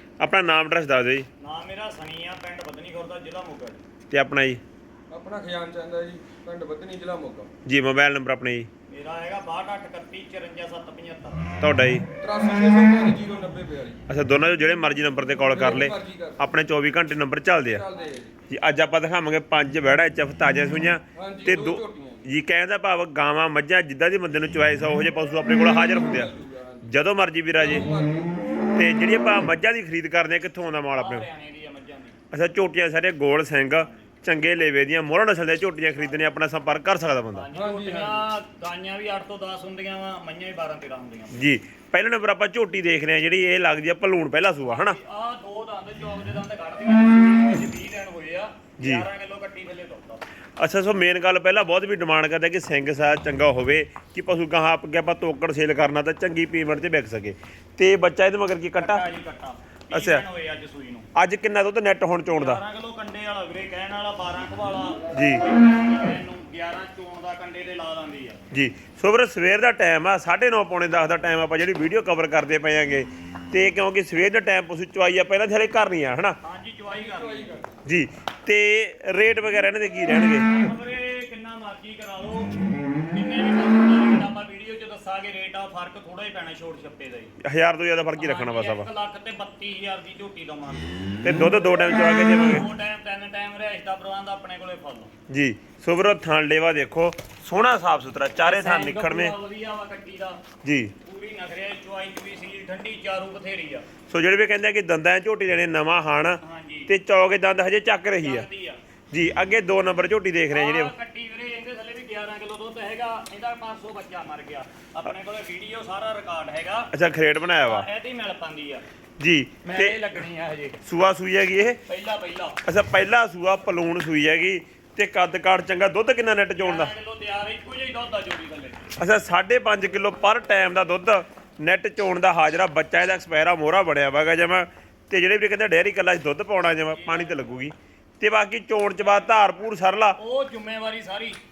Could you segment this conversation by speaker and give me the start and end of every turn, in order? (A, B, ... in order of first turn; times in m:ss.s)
0:00.2-0:01.3 A
0:01.4-0:03.8 B
0:04.1-0:04.6 A
0:05.1-0:07.5 C
0:07.6-0:08.7 A
0:08.9-0:11.4 B
0:11.6-0:12.1 A
0:12.2-0:14.0 C
0:14.1-0:17.8 A
0:15.5-0:16.4 C
0:17.6-0:18.3 C
0:18.5-0:27.9 A
0:21.1-0:22.3 C
0:25.9-0:26.9 C
0:27.6-0:28.4 C
0:28.7-0:31.3 A
0:31.0-0:32.2 B
0:32.3-0:37.5 A
0:33.7-0:34.1 B
0:35.9-0:36.3 B
0:37.3-0:41.4 B
0:37.5-0:38.2 C
0:41.3-0:45.0 A
0:44.6-0:50.2 B
0:48.8-0:49.0 A
0:50.6-0:59.0 A
0:58.8-1:01.1 B
0:59.9-1:00.2 A
1:01.1-1:02.6 A
1:02.3-1:08.4 B
1:05.1-1:05.4 A
1:08.5-1:16.4 A
1:16.4-1:17.6 B
1:16.9-1:17.7 C
1:17.8-1:20.5 A
1:20.4-1:27.4 B
1:27.4-1:28.9 A
1:28.2-1:31.0 B
1:31.2-1:32.6 A
1:31.9-1:35.1 B
1:35.3-1:39.4 A
1:38.4-1:40.4 B
1:40.6-1:40.9 A
1:41.0-1:43.9 B
1:44.1-1:48.5 A
1:46.4-1:46.9 B
1:48.2-1:48.8 B
1:49.1-1:50.9 A
1:50.5-1:56.9 B
1:56.9-1:57.8 A
1:57.6-1:58.8 B
1:59.2-2:00.0 A
1:59.6-2:00.8 B
2:00.8-2:01.8 A
2:01.9-2:02.6 B
2:02.6-2:06.9 A
2:06.6-2:08.9 B
2:09.0-2:20.2 A
2:16.8-2:17.5 B
2:19.0-2:19.4 B
2:20.2-2:21.4 B